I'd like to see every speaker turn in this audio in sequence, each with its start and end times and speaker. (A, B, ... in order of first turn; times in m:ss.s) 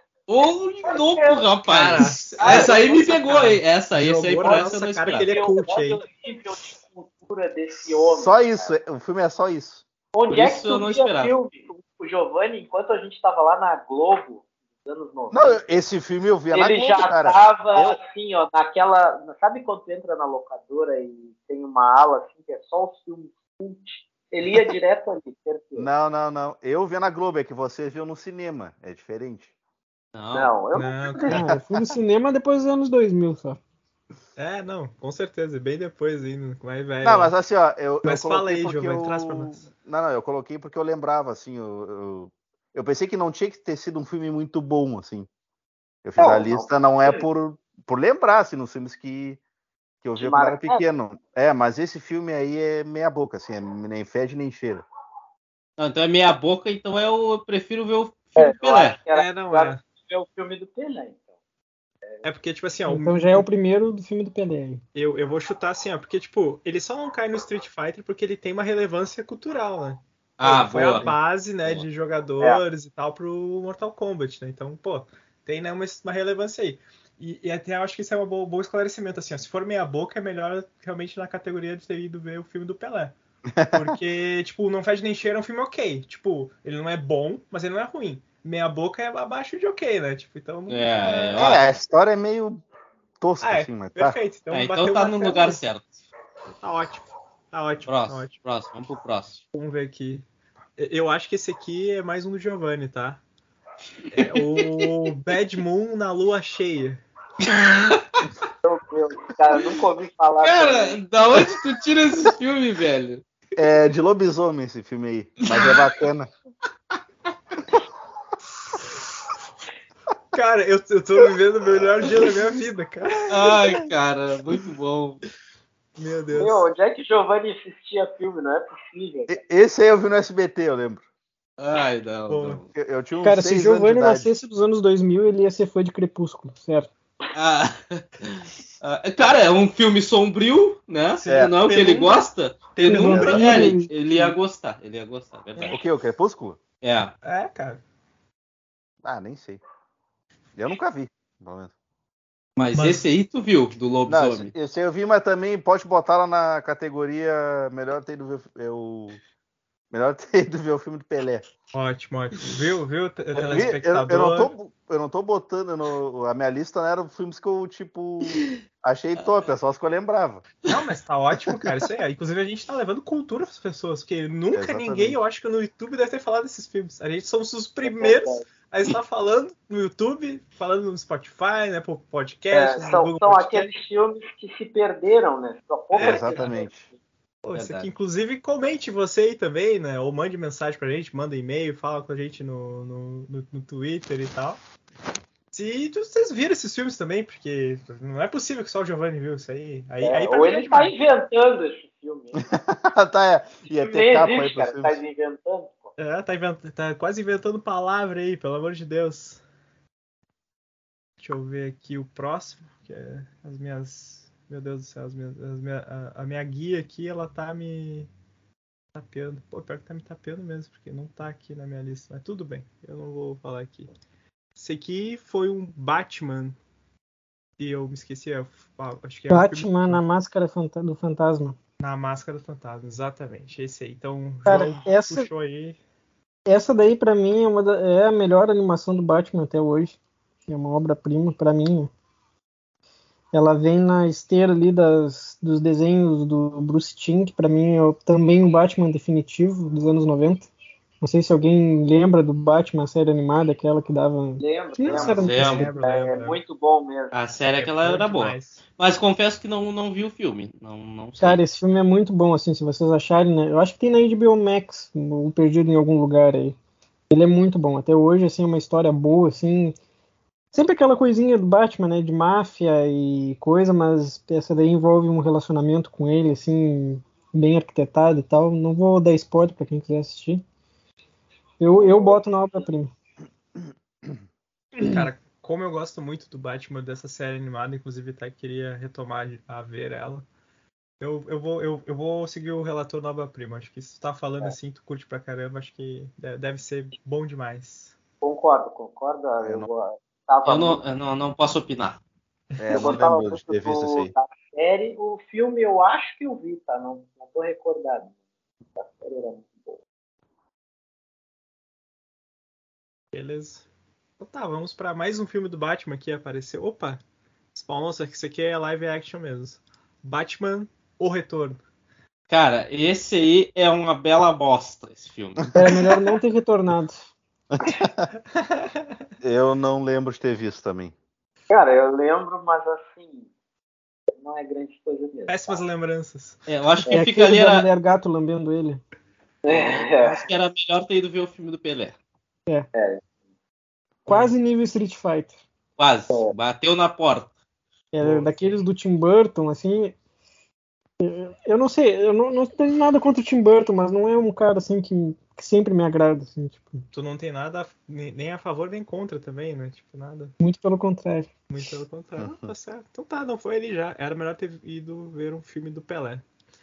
0:00.3-0:05.3 A
0:00.9-0:01.4 B
0:01.6-0:06.0 C
0:02.4-0:02.8 B
0:05.3-0:08.7 B
0:08.0-0:09.8 D
0:10.1-0:15.6 B
0:10.3-0:11.3 A
0:15.3-0:18.0 D
0:16.5-0:25.9 B
0:25.8-0:29.5 D
0:30.1-0:30.5 A
0:30.3-0:31.5 B
0:30.7-0:31.6 C
0:31.3-0:33.6 E
0:34.4-0:37.3 C
0:37.0-0:45.3 D
0:38.0-0:39.7 C
0:46.0-0:49.4 D
0:46.2-0:47.2 B
0:50.0-0:54.8 D
0:50.2-0:50.8 B
0:55.8-0:59.0 A
0:58.4-1:01.2 B
0:59.1-0:59.8 C
1:02.2-1:03.4 C
1:02.9-1:04.8 E
1:04.9-1:23.1 C
1:10.4-1:11.1 A
1:23.5-1:23.9 D
1:23.7-1:31.6 C
1:30.7-1:31.6 A
1:31.4-1:32.6 D
1:33.2-1:34.2 D
1:33.4-1:35.6 C
1:34.5-1:36.0 A
1:36.6-1:38.3 C
1:37.9-1:39.4 A
1:39.5-1:40.2 C
1:40.8-1:43.2 C
1:44.1-1:47.0 C
1:47.4-1:48.2 A
1:48.6-1:51.0 B
1:50.4-1:53.2 A
1:53.6-1:56.3 D
1:55.5-1:55.8 A
2:00.3-2:03.8 C
2:03.3-2:05.2 A
2:06.0-2:06.7 C
2:06.3-2:09.4 B
2:09.3-2:11.0 D
2:11.6-2:12.6 A
2:12.3-2:12.6 C
2:12.7-2:14.3 D
2:13.2-2:16.9 E
2:17.3-2:25.8 A
2:21.2-2:23.8 C
2:22.8-2:24.3 E
2:23.1-2:23.4 D
2:25.7-2:26.6 D
2:26.8-2:27.1 A
2:27.2-2:27.8 C
2:29.0-2:29.6 D
2:30.6-2:31.7 D
2:32.6-2:34.5 A
2:32.7-2:33.0 C
2:34.1-2:39.2 D
2:39.9-2:41.5 D
2:41.7-2:44.5 C
2:43.3-2:50.4 D
2:49.1-2:49.5 A
2:50.6-3:03.7 C
2:54.5-2:55.2 D
2:57.8-2:58.5 B
3:02.5-3:06.7 B
3:05.9-3:06.6 C
3:06.0-3:06.9 D
3:07.4-3:14.6 C
3:07.5-3:07.9 A
3:15.5-3:20.9 C
3:20.0-3:22.5 B
3:22.4-3:25.0 D
3:23.8-3:25.9 B
3:26.0-3:29.4 C
3:31.2-3:38.1 C
3:38.9-3:43.9 C
3:44.6-3:46.6 C
3:47.6-3:50.0 C
3:49.3-3:51.6 E
3:51.8-3:55.8 C
3:54.4-3:55.3 E
3:56.4-4:01.9 E
4:03.3-4:10.5 E
4:11.0-4:15.7 E
4:14.4-4:17.2 B
4:14.9-4:16.4 C
4:15.1-4:15.7 A
4:17.1-4:21.4 A
4:17.5-4:18.6 C
4:21.2-4:26.6 E
4:27.1-4:29.8 E
4:30.5-4:40.4 E
4:41.6-4:42.9 E
4:41.7-4:42.2 B
4:44.7-4:50.2 C
4:51.0-4:57.9 C
4:58.2-5:00.8 B
4:59.4-4:59.7 D
5:00.4-5:02.0 A
5:02.6-5:03.0 C
5:02.6-5:04.1 D
5:02.7-5:08.1 B
5:08.8-5:09.8 B
5:13.1-5:13.6 C
5:14.2-5:17.0 C
5:17.5-5:21.6 C
5:22.3-5:25.5 A
5:25.5-5:27.1 E
5:27.5-5:28.1 D
5:28.3-5:28.9 C
5:29.2-5:30.9 D
5:31.5-5:33.3 B
5:34.2-5:35.6 B
5:35.3-5:36.5 C
5:36.5-5:37.7 A
5:36.9-5:38.8 E
5:39.4-5:40.2 B
5:39.5-5:41.9 A
5:42.7-5:43.0 B
5:44.1-5:45.3 E
5:45.8-5:47.3 A
5:47.9-5:49.9 E
5:48.0-5:48.5 C
5:51.0-5:56.8 E
5:56.9-6:00.3 C
6:00.4-6:01.3 E
6:01.5-6:06.2 C
6:02.2-6:02.5 D